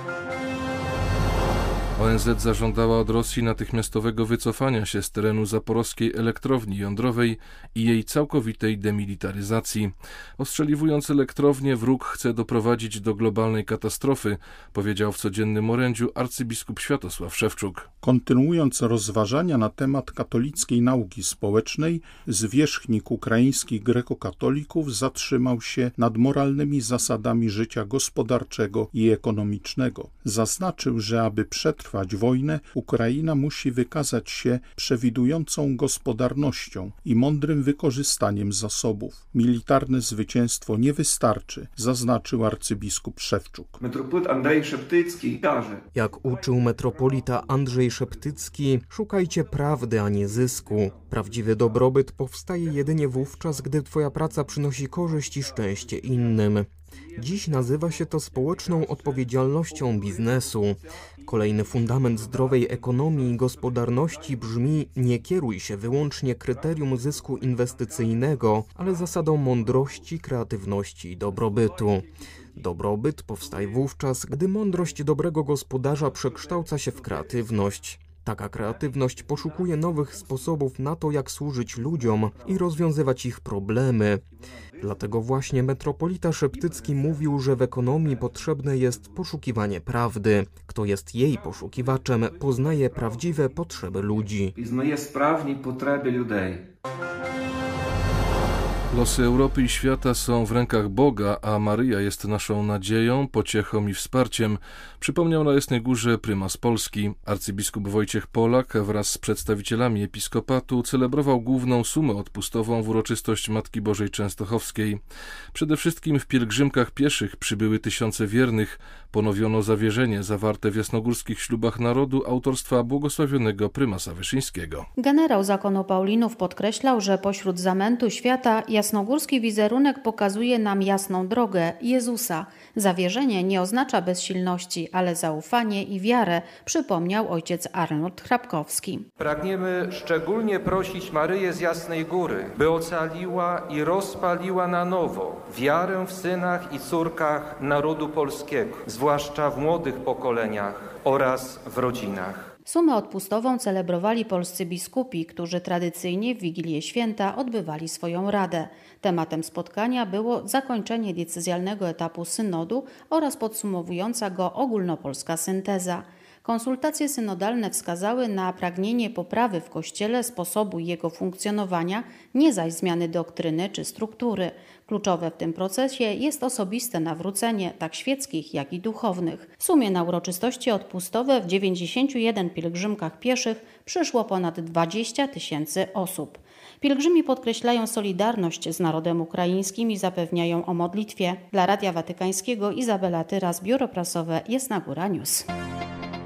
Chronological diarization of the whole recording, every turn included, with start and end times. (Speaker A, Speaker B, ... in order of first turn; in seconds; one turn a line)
Speaker A: 2.0-17.9
Speaker B: 18.0-43.8
Speaker C: 43.8-45.8
Speaker D: 45.9-84.2
Speaker D: 84.8-94.5
Speaker C: 94.6-96.6
Speaker A: 98.9-115.0
Speaker A: 115.5-124.9
Speaker E: 125.0-139.1
Speaker F: 139.2-152.5
Speaker E: 152.7-195.5